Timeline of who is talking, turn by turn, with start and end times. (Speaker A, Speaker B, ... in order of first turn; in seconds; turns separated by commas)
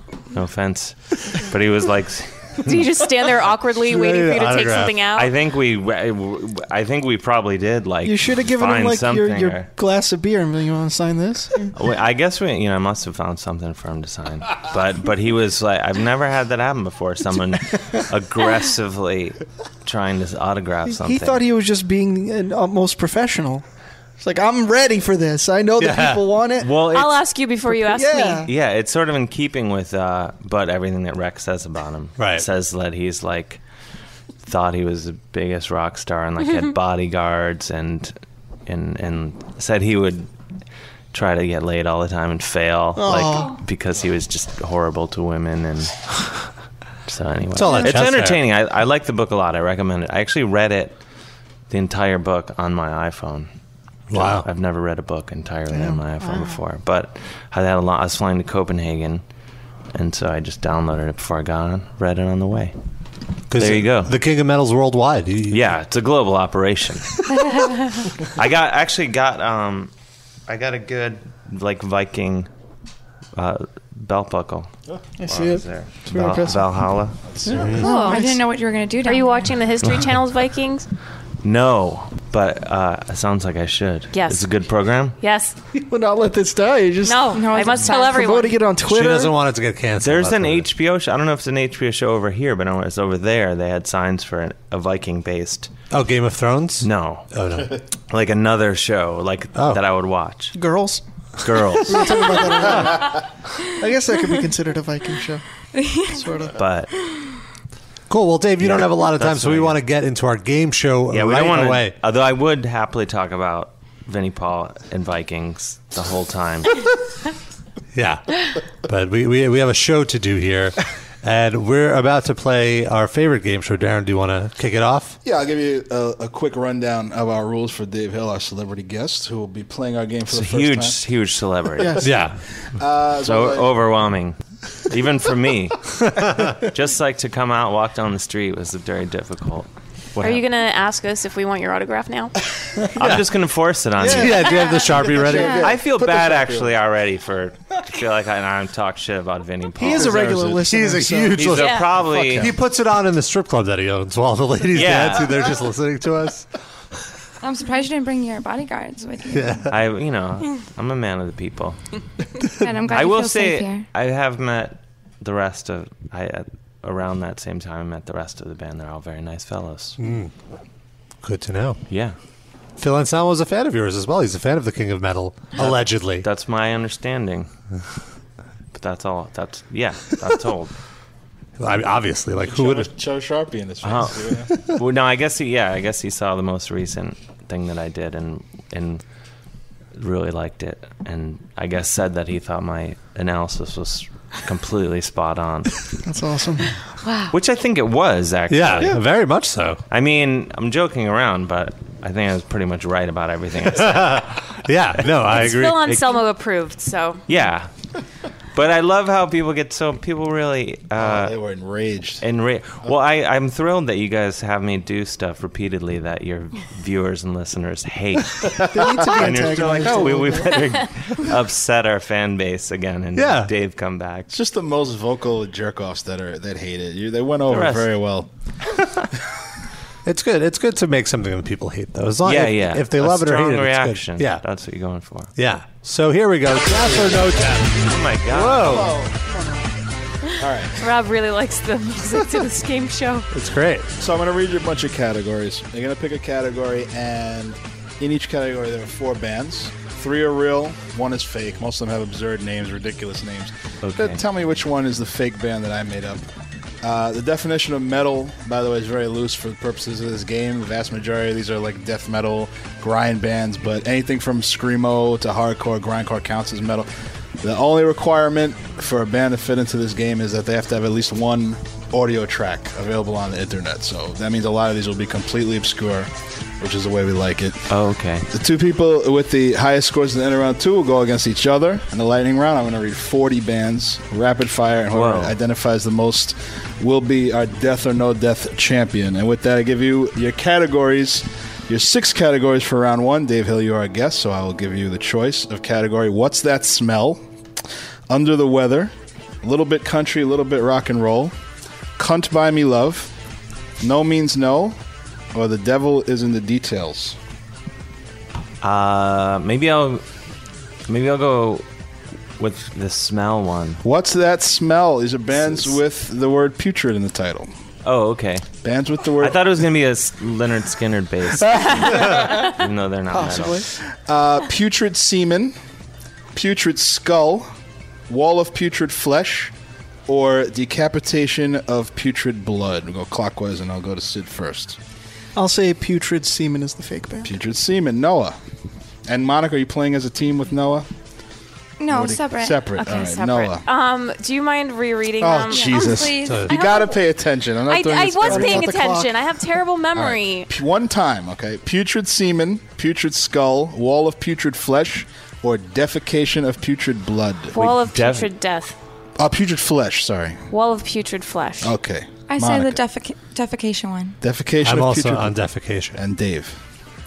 Speaker A: 0.3-2.9, Speaker B: 2.6-5.3, Speaker C: 3.8-5.1, Speaker A: 5.1-9.7, Speaker D: 8.0-11.7, Speaker A: 11.7-21.4, Speaker D: 20.9-23.6, Speaker D: 24.2-26.8, Speaker C: 25.8-26.2, Speaker A: 26.6-27.2, Speaker B: 26.9-28.5, Speaker D: 27.8-28.5, Speaker A: 28.4-33.6, Speaker C: 32.2-32.5, Speaker A: 34.4-38.1, Speaker A: 38.6-40.3, Speaker A: 41.1-46.3, Speaker D: 43.0-43.5, Speaker A: 47.0-51.0, Speaker C: 47.5-48.4, Speaker D: 47.6-48.0, Speaker A: 51.7-53.5, Speaker C: 54.1-54.5, Speaker A: 54.1-59.2, Speaker D: 55.7-56.5, Speaker A: 59.9-62.7, Speaker C: 63.5-65.7, Speaker A: 63.5-64.1, Speaker A: 65.5-67.1, Speaker A: 68.3-69.9, Speaker A: 70.5-72.5, Speaker A: 73.3-74.7, Speaker D: 75.2-76.8, Speaker A: 75.2-77.2, Speaker E: 77.4-77.8, Speaker D: 77.4-78.4, Speaker F: 77.8-79.5, Speaker B: 77.8-78.2, Speaker B: 79.0-80.9, Speaker A: 79.8-80.2, Speaker A: 81.4-85.2, Speaker B: 84.1-84.5, Speaker B: 85.2-85.5, Speaker D: 85.7-89.3, Speaker B: 87.0-88.6, Speaker F: 87.3-88.3, Speaker C: 88.8-90.7, Speaker A: 90.0-95.7, Speaker C: 95.9-97.8, Speaker A: 96.8-97.3, Speaker A: 98.1-100.5, Speaker C: 99.5-99.8, Speaker D: 100.5-101.0, Speaker A: 101.4-102.3, Speaker D: 101.8-105.4, Speaker F: 105.7-106.2, Speaker D: 106.0-106.6, Speaker A: 106.5-106.9, Speaker C: 108.1-112.0, Speaker A: 108.6-109.8, Speaker A: 111.1-116.8, Speaker C: 117.9-125.2, Speaker E: 125.2-131.0, Speaker A: 130.3-132.2, Speaker C: 132.0-132.4, Speaker E: 132.7-133.8, Speaker A: 133.2-134.4, Speaker A: 134.9-135.8, Speaker C: 136.1-136.5, Speaker A: 136.6-140.4, Speaker B: 140.2-142.3, Speaker A: 142.9-144.5, Speaker C: 143.0-143.2, Speaker D: 144.0-145.7, Speaker C: 144.1-145.6, Speaker E: 145.2-146.8, Speaker A: 145.6-150.6, Speaker D: 149.8-151.6, Speaker C: 150.2-156.5, Speaker A: 151.3-152.6, Speaker B: 151.6-151.9, Speaker A: 154.7-155.4, Speaker F: 157.4-159.6, Speaker C: 159.3-159.7, Speaker A: 159.7-161.8, Speaker F: 162.6-163.9, Speaker A: 162.8-170.0, Speaker C: 170.0-170.3, Speaker C: 171.2-171.8, Speaker A: 171.9-172.2, Speaker C: 172.8-176.3, Speaker A: 175.5-177.5, Speaker A: 178.7-180.7, Speaker C: 181.6-182.9, Speaker E: 182.4-184.5, Speaker A: 183.8-189.0, Speaker A: 189.9-195.8, Speaker D: 196.0-196.7, Speaker B: 197.0-197.3, Speaker A: 197.3-199.0, Speaker C: 198.5-199.8, Speaker A: 199.9-204.4, Speaker C: 203.7-205.9, Speaker A: 205.2-206.2, Speaker B: 205.3-207.2, Speaker A: 207.3-207.7, Speaker A: 208.5-211.3, Speaker E: 210.9-212.2, Speaker A: 212.2-224.3, Speaker D: 218.7-220.6, Speaker C: 223.1-223.5, Speaker E: 224.3-228.3, Speaker A: 227.5-227.9, Speaker C: 230.1-234.4, Speaker A: 232.2-235.3, Speaker C: 235.3-239.0, Speaker A: 237.8-238.8, Speaker E: 238.6-239.1, Speaker D: 239.2-239.6, Speaker E: 240.4-240.8, Speaker B: 240.8-243.3, Speaker C: 243.3-243.9, Speaker E: 244.0-256.2, Speaker A: 253.8-254.2, Speaker E: 256.8-266.9, Speaker E: 267.4-277.7, Speaker A: 277.7-278.3, Speaker E: 278.3-297.2, Speaker A: 284.9-285.4, Speaker E: 298.1-298.9, Speaker E: 299.4-301.3, Speaker E: 302.0-303.1, Speaker E: 303.8-304.8, Speaker E: 305.3-307.2, Speaker A: 308.6-310.0, Speaker A: 310.9-311.6, Speaker A: 312.4-313.8, Speaker E: 313.8-317.5, Speaker A: 315.4-315.8, Speaker A: 317.8-318.5, Speaker E: 318.6-319.5, Speaker A: 319.2-323.6, Speaker B: 321.5-322.4, Speaker D: 323.1-323.7, Speaker E: 323.2-325.5, Speaker E: 326.3-327.5, Speaker E: 328.1-329.5, Speaker E: 330.1-334.8, Speaker D: 335.3-337.3, Speaker E: 337.2-338.4, Speaker E: 339.1-340.9, Speaker F: 341.8-342.6, Speaker E: 341.9-343.6, Speaker B: 342.8-346.0, Speaker E: 345.2-348.9, Speaker F: 345.5-346.9, Speaker C: 346.2-346.5, Speaker B: 346.5-346.9, Speaker B: 347.7-350.5, Speaker D: 348.2-349.1, Speaker E: 349.9-357.7, Speaker B: 357.5-358.8, Speaker A: 357.6-358.3, Speaker E: 359.2-360.4, Speaker B: 360.5-361.7, Speaker E: 361.6-362.8, Speaker F: 362.3-364.1, Speaker E: 364.2-365.4, Speaker C: 364.6-366.0, Speaker E: 365.9-366.6